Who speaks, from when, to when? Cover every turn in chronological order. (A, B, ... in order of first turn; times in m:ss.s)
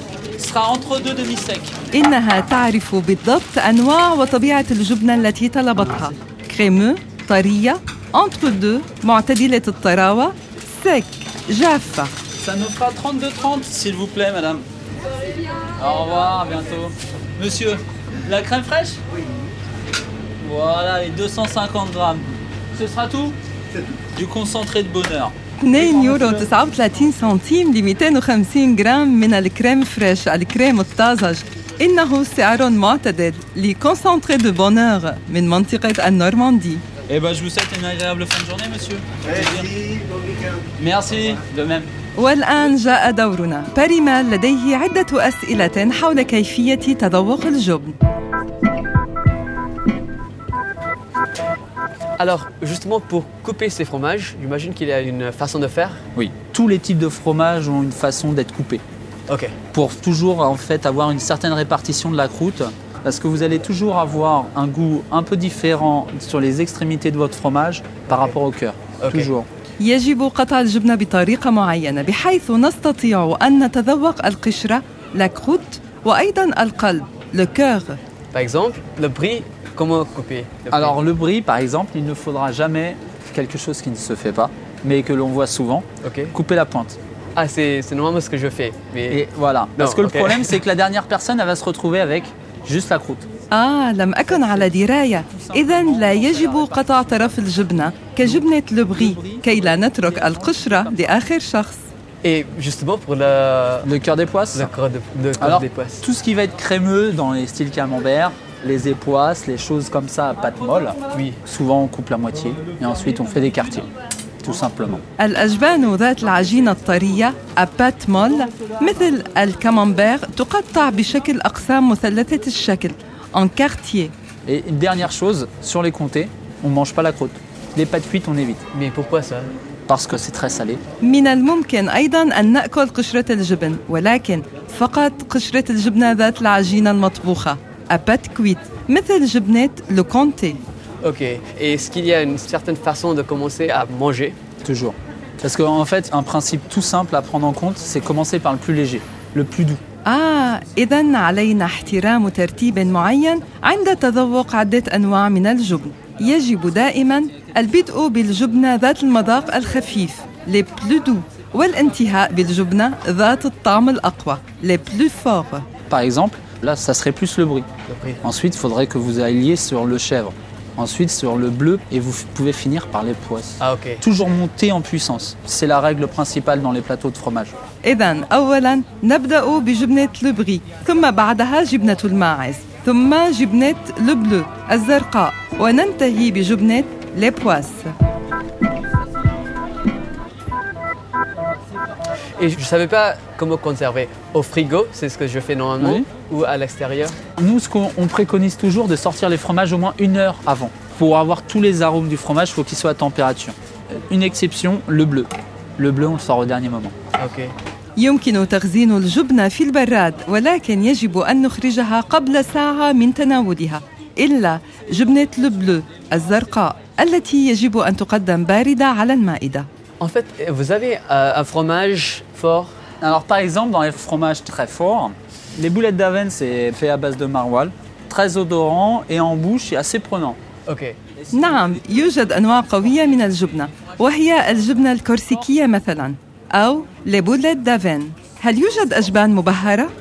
0:00.4-0:01.8 A
0:01.9-0:12.1 B
0:12.4-0:14.6 A
0:15.8-0:19.0 A
0:20.4-0:23.4 A
0:24.1-0:25.3 A
0:25.6-0:36.8 B
0:37.1-0:40.1 A
0:40.8-0:41.9 A
0:42.2-0:48.0 B
0:52.2-0:56.0 C
0:56.2-0:58.8 A
0:59.3-0:59.6 C
0:59.7-1:09.5 A
1:09.0-1:09.3 C
1:09.8-1:18.0 B
1:18.3-1:21.0 C
1:20.7-1:27.0 A
1:26.0-1:26.4 C
1:27.4-1:29.2 C
1:29.1-1:33.3 A
1:29.8-1:30.6 C
1:33.5-1:41.8 B
1:35.1-1:37.2 A
1:38.2-1:41.2 A
1:42.2-1:43.9 C
1:43.8-1:44.7 A
1:44.5-1:46.1 C
1:45.4-1:53.9 A
1:51.1-1:51.4 C
1:54.4-1:55.0 A
1:55.2-2:04.1 B
2:04.5-2:08.6 A
2:08.7-2:09.5 C
2:09.9-2:10.8 A
2:11.0-2:20.6 B
2:21.0-2:24.4 C
2:24.6-2:29.8 A
2:30.0-2:45.7 B
2:45.9-2:47.7 A
2:47.9-2:48.2 C
2:48.2-2:57.5 A
2:53.6-2:54.0 C
2:57.8-3:07.9 B
3:12.4-3:17.2 C
3:15.8-3:16.1 A
3:17.4-3:26.9 A
3:27.2-3:27.5 C
3:28.0-3:39.7 B
3:40.0-3:42.7 C
3:43.0-3:50.4 A
3:50.7-3:51.0 C
3:51.3-3:59.9 B